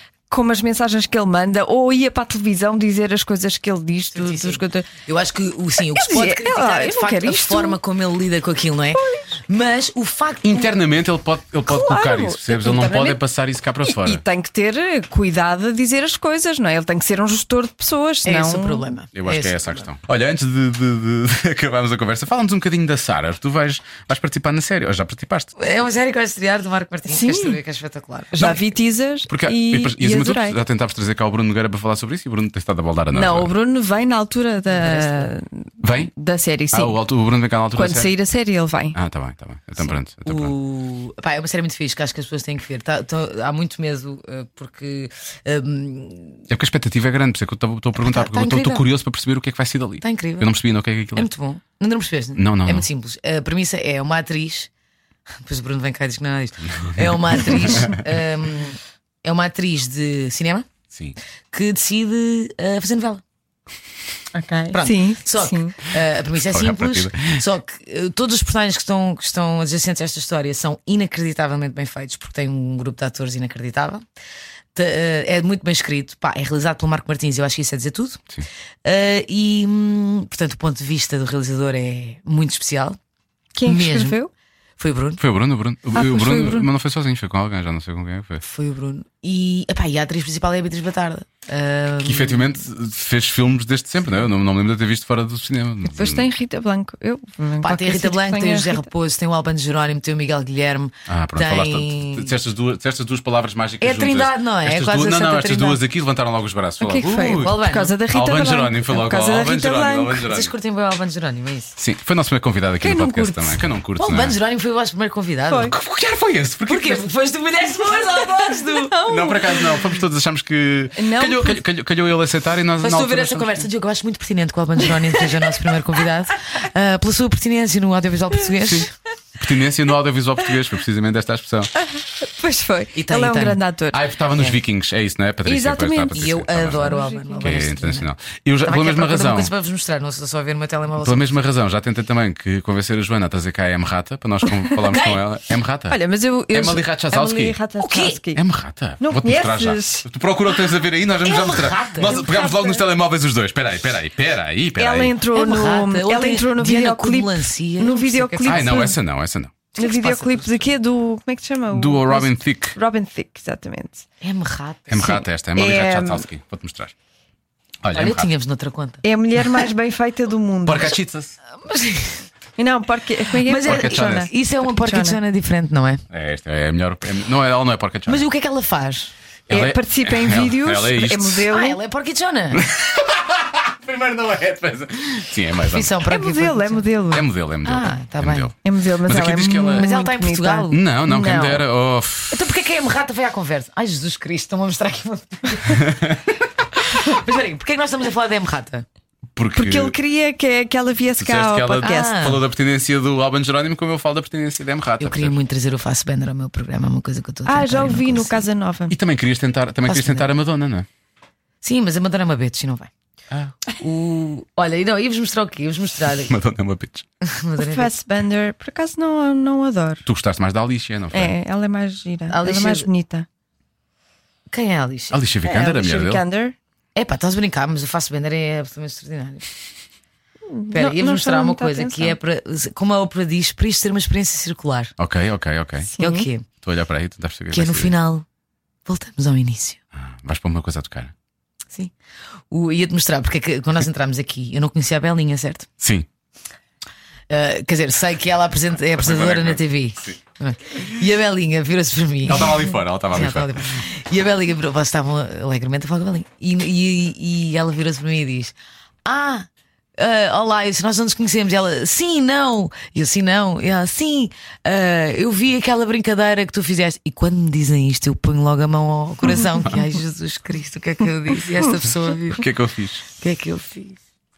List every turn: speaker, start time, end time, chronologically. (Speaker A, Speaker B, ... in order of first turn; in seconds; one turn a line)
Speaker A: 0.3-4.9
Speaker B: 4.1-10.7
Speaker A: 5.9-7.8
Speaker A: 9.0-9.2
Speaker C: 10.4-14.2
Speaker A: 11.7-13.2
Speaker A: 13.9-18.9
Speaker B: 18.2-19.9
Speaker C: 19.1-25.5
Speaker B: 25.6-28.5
Speaker A: 27.1-27.6
Speaker A: 28.3-30.6
Speaker C: 29.3-33.5
Speaker A: 33.1-37.0
Speaker B: 34.7-35.3
Speaker C: 35.8-36.1
Speaker C: 36.7-38.1
Speaker A: 37.8-39.0
Speaker C: 38.9-40.5
Speaker B: 40.2-46.4
Speaker C: 46.5-51.3
Speaker B: 48.0-48.9
Speaker B: 50.0-50.5
Speaker B: 51.1-54.7
Speaker C: 52.4-52.9
Speaker B: 55.4-60.7
Speaker C: 56.7-58.0
Speaker B: 61.5-63.2
Speaker A: 64.3-65.8
Speaker B: 64.7-74.0
Speaker C: 66.3-67.4
Speaker B: 74.7-78.2
Speaker B: 78.8-83.0
Speaker A: 83.6-84.3
Speaker B: 83.7-84.2
Speaker B: 84.8-85.2
Speaker C: 85.2-88.4
Speaker A: 86.0-86.7
Speaker B: 88.4-92.5
Speaker C: 92.0-96.3
Speaker A: 95.9-98.8
Speaker B: 97.6-102.3
Speaker C: 101.1-107.6
Speaker B: 103.8-105.8
Speaker A: 106.8-110.2
Speaker B: 107.3-107.9
Speaker C: 108.1-110.5
Speaker B: 110.3-111.8
Speaker C: 111.8-114.4
Speaker A: 112.8-113.7
Speaker B: 114.0-115.8
Speaker C: 115.6-117.1
Speaker B: 116.7-119.0
Speaker A: 118.0-120.0
Speaker C: 119.0-123.7
Speaker A: 121.0-121.6
Speaker B: 122.8-128.9
Speaker A: 125.0-125.6
Speaker C: 128.6-131.7
Speaker A: 132.2-134.0
Speaker B: 132.9-133.6
Speaker C: 133.9-139.5
Speaker A: 135.4-137.7
Speaker B: 136.2-138.1
Speaker B: 138.6-141.3
Speaker C: 141.0-146.0
Speaker B: 144.9-145.2
Speaker A: 145.9-148.4
Speaker C: 146.5-147.6
Speaker B: 147.8-148.2
Speaker C: 148.3-155.2
Speaker A: 149.0-150.0
Speaker B: 151.1-152.2
Speaker A: 152.0-152.8
Speaker A: 154.8-159.0
Speaker B: 155.3-158.9
Speaker C: 158.4-159.6
Speaker B: 159.8-160.7
Speaker A: 159.8-164.1
Speaker C: 161.7-162.8
Speaker B: 164.2-165.2
Speaker C: 164.9-166.9
Speaker A: 165.6-166.3
Speaker C: 167.8-168.3
Speaker B: 167.9-169.0
Speaker A: 169.0-171.0
Speaker C: 170.7-171.3
Speaker B: 171.6-172.3
Speaker A: 172.6-175.2
Speaker B: 173.4-176.0
Speaker C: 173.6-174.3
Speaker C: 176.1-178.2
Speaker B: 178.1-179.1
Speaker C: 179.5-181.5
Speaker A: 179.5-181.8
Speaker B: 181.5-182.7
Speaker C: 182.5-185.9
Speaker B: 185.7-186.9
Speaker A: 186.1-187.3
Speaker C: 187.1-189.9
Speaker B: 187.6-188.5
Speaker A: 188.6-191.6
Speaker B: 189.7-190.8
Speaker C: 190.7-192.4
Speaker B: 192.3-196.1
Speaker C: 195.7-196.2
Speaker B: 196.8-198.9
Speaker C: 199.3-200.0
Speaker A: 199.6-202.1
Speaker C: 201.2-205.4
Speaker B: 201.8-202.4
Speaker B: 205.0-208.5
Speaker A: 207.5-209.0
Speaker C: 208.9-210.9
Speaker B: 209.9-210.3
Speaker B: 211.6-212.9
Speaker B: 213.7-216.3
Speaker C: 216.3-217.1
Speaker B: 217.2-217.9
Speaker A: 217.6-220.1
Speaker C: 220.1-221.3
Speaker A: 221.1-223.3
Speaker B: 222.3-222.9
Speaker B: 224.5-225.2
Speaker C: 225.1-226.2
Speaker A: 225.4-226.6
Speaker B: 227.0-229.4
Speaker A: 230.5-232.2
Speaker B: 230.7-234.9
Speaker C: 235.0-235.9
Speaker A: 236.0-236.3
Speaker B: 236.0-236.5
Speaker C: 236.6-237.9
Speaker B: 237.5-238.3
Speaker B: 238.9-239.8
Speaker C: 239.9-241.1
Speaker B: 242.5-245.7
Speaker C: 245.8-246.1
Speaker B: 247.3-272.5
Speaker C: 248.9-250.2
Speaker C: 252.2-253.8
Speaker C: 272.3-273.1
Speaker B: 273.2-274.0